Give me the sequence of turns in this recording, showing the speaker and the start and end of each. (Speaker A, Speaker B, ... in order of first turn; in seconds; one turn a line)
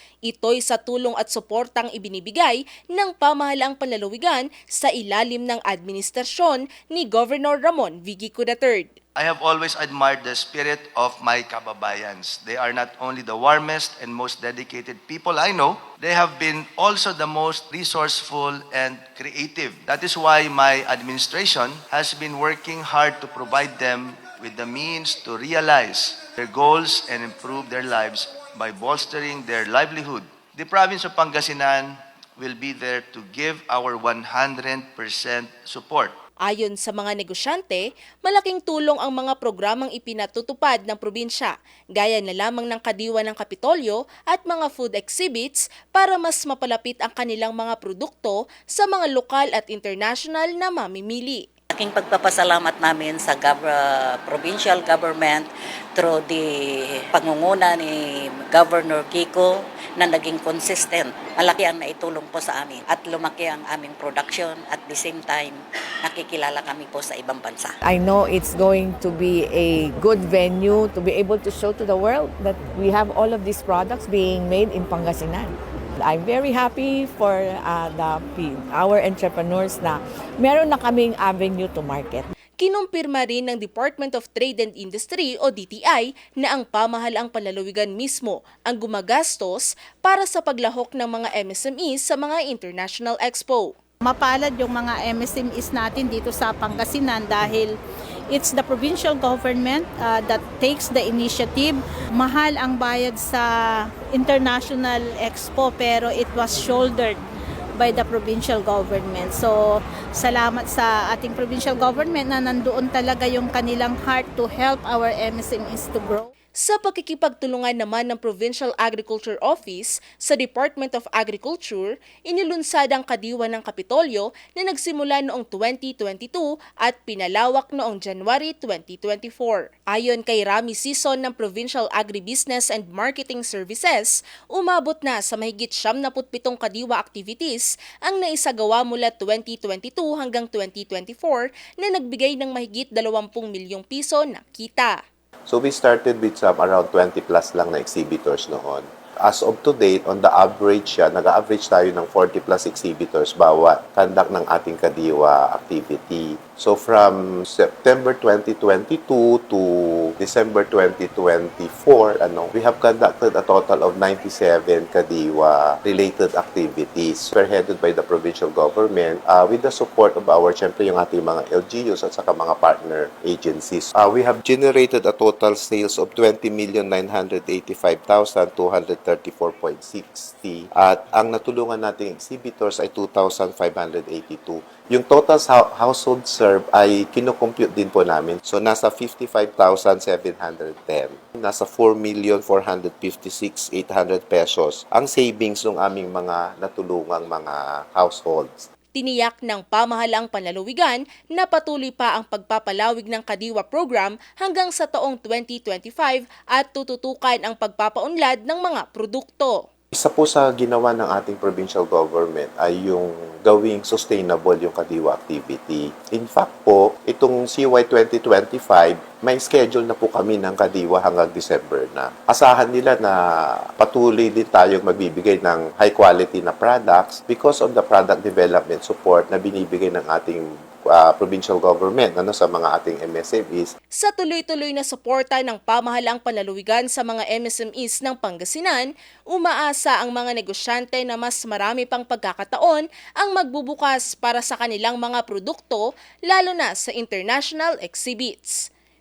Speaker A: 0.3-8.9
Speaker B: 9.2-36.2
Speaker A: 36.4-51.5
Speaker C: 51.7-67.8
Speaker D: 67.8-82.3
Speaker A: 82.6-93.7
Speaker E: 94.0-97.8
Speaker E: 98.3-107.2
Speaker E: 107.8-109.5
Speaker E: 110.2-116.3
Speaker A: 116.6-145.0
Speaker F: 145.5-198.7
Speaker A: 198.9-209.6
Speaker F: 209.9-233.7
Speaker A: 234.0-248.7